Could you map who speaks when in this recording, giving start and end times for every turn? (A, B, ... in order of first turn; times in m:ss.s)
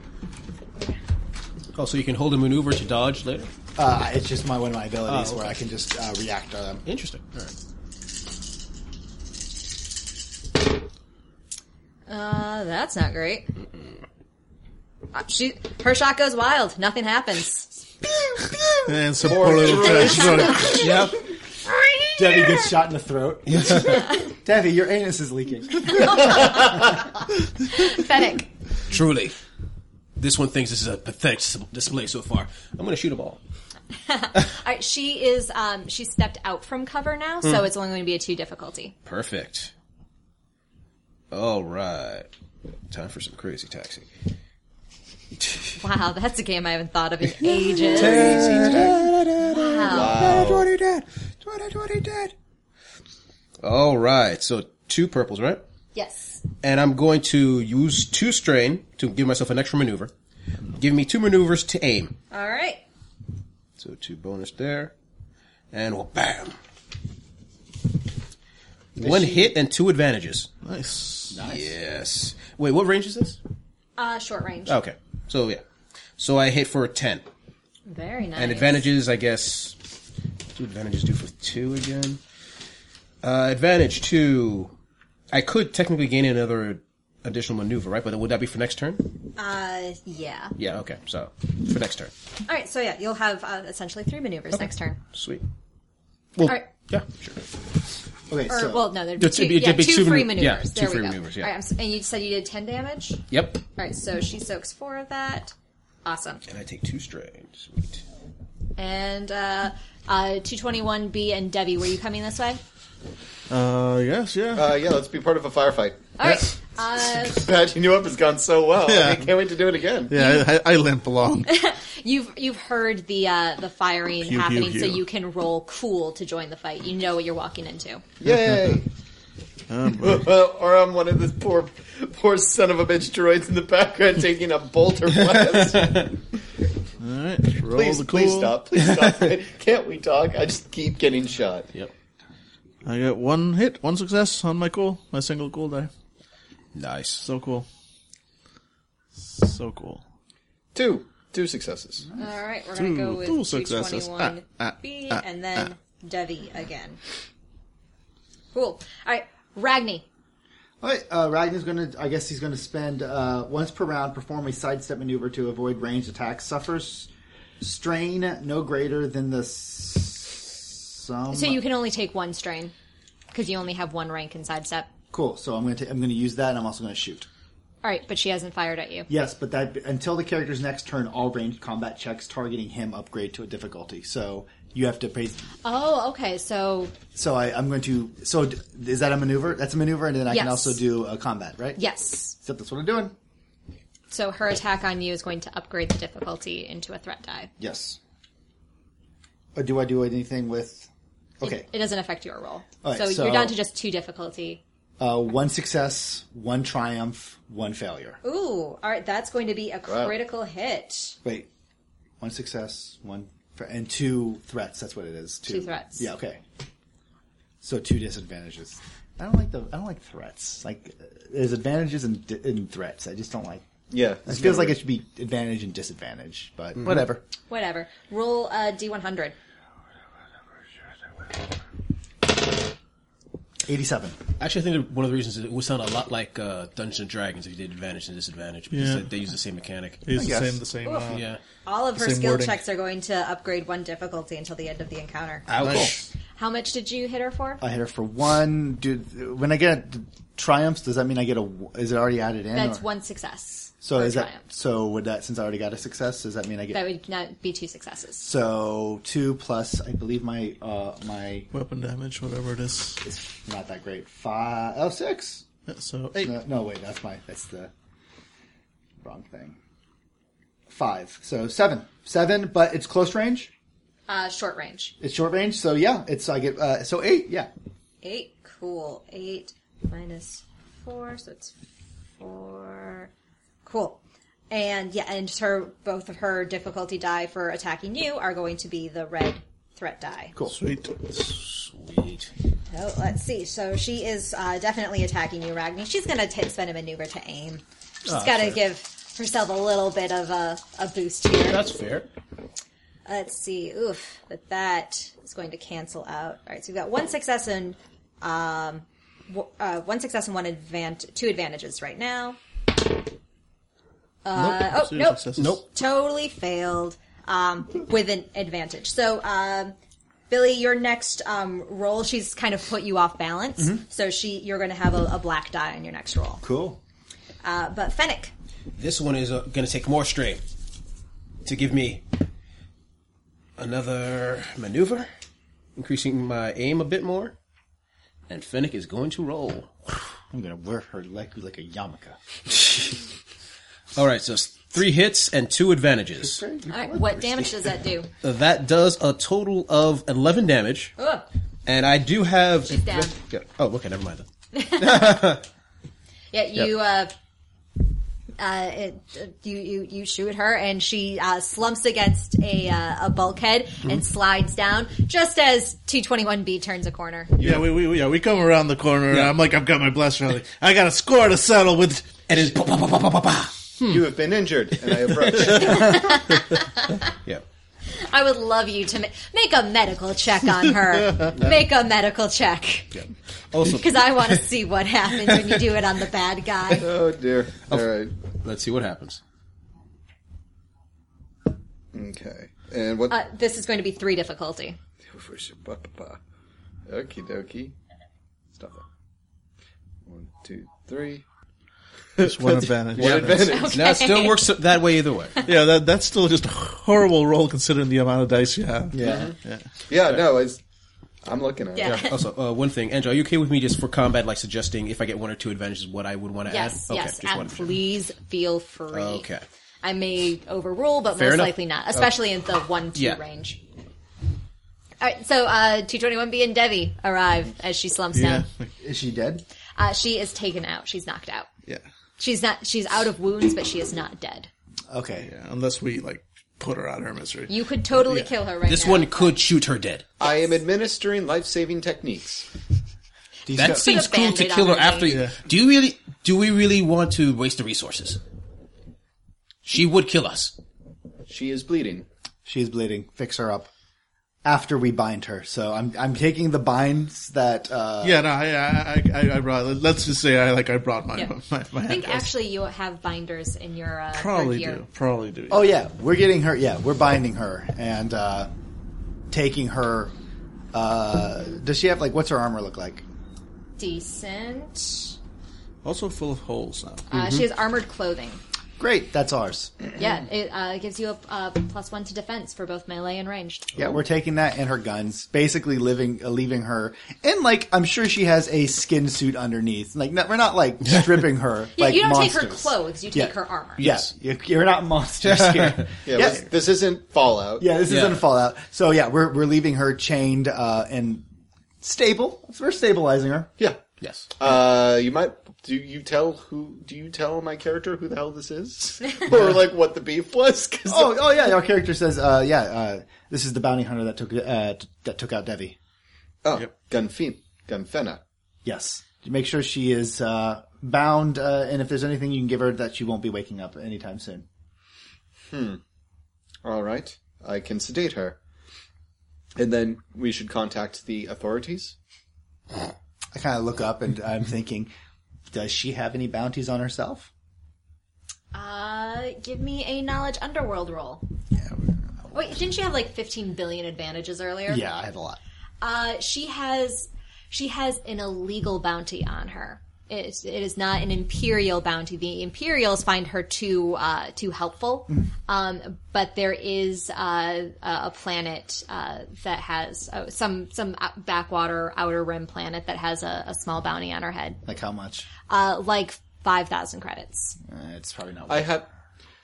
0:01.8-0:03.5 A
0:03.8-0:06.8 B
0:05.1-0:05.6 A
0:06.9-0:07.5 A
0:12.1-0:13.6 C
0:15.1-0:17.7 C
0:18.8-0:21.0 D
0:19.2-0:20.8 E
0:20.1-0:20.7 C
0:20.7-0:21.2 A
0:22.2-0:26.6 B
0:23.5-0:24.1 A
0:23.9-0:24.2 C
0:25.9-0:27.0 C
0:27.7-0:28.5 C
0:28.9-0:29.4 A
0:30.2-0:33.4 A
0:34.0-0:39.0 C
0:39.0-0:39.7 A
0:41.3-0:42.3 A
0:42.9-0:44.1 A
0:45.8-0:48.6 C
0:47.8-0:52.3 A
0:48.0-0:49.0 E
0:49.4-0:50.4 C
0:49.9-0:50.7 E
0:53.6-0:55.6 A
0:56.0-0:56.4 C
0:56.6-1:00.1 A
1:00.8-1:02.1 A
1:02.3-1:02.8 C
1:03.8-1:04.9 A
1:05.7-1:06.6 A
1:09.0-1:10.5 A
1:09.0-1:09.3 B
1:10.6-1:11.5 D
1:11.3-1:13.4 A
1:14.0-1:14.8 C
1:14.7-1:15.6 A
1:16.2-1:17.3 A
1:17.9-1:18.8 C
1:18.4-1:19.8 A
1:20.6-1:22.2 A
1:23.2-1:24.7 A
1:25.3-1:29.0 A
1:29.4-1:30.6 C
1:30.6-1:32.1 A
1:32.5-1:35.0 C
1:34.5-1:35.4 A
1:36.4-1:37.4 A
1:36.4-1:36.7 C
1:38.3-1:38.9 B
1:38.5-1:45.5 C
1:39.2-1:41.5 A
1:43.3-1:43.6 A
1:46.0-1:46.4 C
1:46.5-1:48.0 A
1:48.8-1:52.6 C
1:53.5-1:54.7 D
1:54.6-1:56.1 E
1:56.2-1:57.4 C
1:57.2-2:00.1 E
1:58.8-1:59.3 D
2:00.1-2:01.5 D
2:00.1-2:00.5 C
2:01.5-2:08.0 C
2:04.2-2:05.0 D
2:08.2-2:08.9 E
2:08.2-2:08.8 D
2:09.7-2:10.3 D
2:09.9-2:16.2 E
2:17.0-2:18.6 D
2:17.7-2:21.7 E
2:22.8-2:25.9 D
2:26.7-2:27.3 A
2:27.2-2:27.7 D
2:29.2-2:30.0 D
2:30.7-2:32.1 E
2:32.2-2:37.0 C
2:32.8-2:35.6 D
2:38.5-2:40.1 C
2:40.8-2:51.6 B
2:51.3-2:52.7 C
2:53.3-2:54.9 C
2:55.1-2:57.3 B
2:57.8-2:59.1 C
2:59.1-3:05.5 B
3:05.6-3:06.9 C
3:07.1-3:11.8 B
3:10.3-3:10.8 C
3:11.8-3:12.4 C
3:12.4-3:13.2 B
3:14.1-3:17.5 C
3:17.6-3:18.0 B
3:19.6-3:20.9 B
3:21.4-3:21.7 B
3:21.4-3:24.6 C
3:22.8-3:23.6 B
3:25.0-3:28.2 B
3:28.2-3:31.2 C
3:29.9-3:30.1 E
3:32.2-3:36.4 B
3:35.5-3:36.1 C
3:37.6-3:43.6 B
3:43.9-3:44.8 E
3:44.3-3:47.2 B
3:47.5-3:49.4 C
3:53.6-3:54.2 B
3:54.4-4:00.0 A
3:58.7-3:59.1 D
4:00.0-4:01.2 D
4:00.2-4:00.6 B
4:00.8-4:05.5 C
4:01.1-4:01.4 A
4:02.0-4:02.6 D
4:05.5-4:06.1 A
4:05.6-4:05.9 D
4:06.4-4:07.6 C
4:07.6-4:12.8 B
4:12.5-4:14.4 C
4:13.8-4:16.8 B
4:16.7-4:18.3 C
4:18.2-4:21.5 B
4:21.5-4:23.0 D
4:23.0-4:25.4 B
4:25.7-4:26.3 D
4:26.2-4:27.7 B
4:29.0-4:29.6 B
4:30.7-4:33.5 B
4:34.1-4:35.0 C
4:35.0-4:37.5 B
4:38.0-4:41.6 C
4:42.2-4:43.1 C
4:43.6-4:50.4 C
4:50.5-4:51.1 D
4:51.1-4:52.3 A
4:52.7-5:01.8 C
4:58.1-4:58.6 A
5:01.5-5:02.1 A
5:03.1-5:12.4 C
5:14.2-5:19.8 C
5:14.3-5:15.6 D
5:15.4-5:15.6 A
5:20.3-5:26.4 C
5:26.4-5:26.8 B
5:27.4-5:28.3 C
5:28.8-5:30.4 A
5:31.4-5:32.0 A
5:33.6-5:35.1 A
5:35.8-5:37.4 A
5:38.3-5:39.9 A
5:40.3-5:42.9 B
5:44.0-5:46.4 A
5:46.2-5:47.5 B
5:46.7-5:48.1 C
5:48.2-5:50.9 A
5:51.0-5:51.3 C
5:51.7-5:55.4 A
5:52.7-5:53.2 C
5:54.5-5:55.4 C
5:56.3-5:57.1 C
5:58.4-6:07.4 C
6:07.4-6:07.7 E
6:07.4-6:12.1 D
6:12.3-6:14.1 A
6:13.9-6:16.1 E
6:15.5-6:17.0 C
6:18.0-6:22.9 C
6:23.5-6:24.4 A
6:23.6-6:26.9 C
6:26.8-6:28.1 E
6:27.7-6:29.2 A
6:31.9-6:33.2 E
6:33.1-6:34.8 C
6:35.1-6:36.2 E
6:36.9-6:37.8 E
6:38.6-6:38.8 E
6:40.1-6:41.2 E
6:42.2-6:43.8 E
6:42.2-6:43.6 D
6:43.0-6:45.4 A
6:43.4-6:44.6 C
6:45.4-6:49.6 D
6:48.9-6:49.3 B
6:49.0-6:49.4 E
6:49.9-6:50.6 E
6:51.2-6:52.1 E
6:51.8-6:52.2 C
6:51.8-6:57.8 A
6:56.5-6:59.3 C
6:58.9-6:59.4 A
6:59.8-7:03.6 C
7:01.1-7:01.6 A
7:03.0-7:03.2 A
7:05.0-7:08.5 C
7:08.1-7:08.7 D
7:08.8-7:09.4 B
7:09.8-7:11.5 C
7:12.2-7:14.5 C
7:14.9-7:15.3 B
7:15.2-7:18.3 D
7:17.5-7:19.4 C
7:18.6-7:20.0 A
7:20.2-7:22.5 E
7:23.5-7:23.9 B
7:23.5-7:28.2 A
7:23.6-7:25.2 C
7:25.1-7:25.4 D
7:29.6-7:30.6 A
7:31.3-7:32.1 E
7:32.4-7:33.7 B
7:34.4-7:38.2 B
7:38.0-7:42.3 D
7:41.8-7:44.8 C
7:44.1-7:45.7 D
7:45.5-7:48.5 B
7:49.3-7:50.2 B
7:50.7-7:53.0 B
7:53.8-7:55.2 C
7:55.8-7:57.1 D
7:57.1-7:58.4 C
7:57.1-7:57.4 A
7:58.8-8:00.0 B
8:00.0-8:03.7 C
8:03.8-8:16.5 B
8:11.8-8:13.8 C
8:13.8-8:14.1 A
8:15.2-8:15.9 A
8:16.0-8:17.7 E
8:17.6-8:21.2 B
8:17.9-8:18.2 A
8:21.8-8:23.5 B
8:23.6-8:31.3 E
8:24.0-8:24.3 A
8:30.9-8:35.8 B
8:36.4-8:38.2 E
8:38.6-8:44.5 B
8:45.5-8:45.8 E
8:46.6-8:48.4 E
8:49.6-8:52.0 E
8:53.3-8:54.9 B
8:55.5-8:57.3 B
8:58.5-9:01.2 C
9:01.6-9:02.4 B
9:02.3-9:04.8 C
9:04.7-9:05.4 B
9:05.8-9:24.6 C
9:24.7-9:25.3 B
9:25.5-9:27.6 C
9:27.7-9:28.8 B
9:28.5-9:28.9 E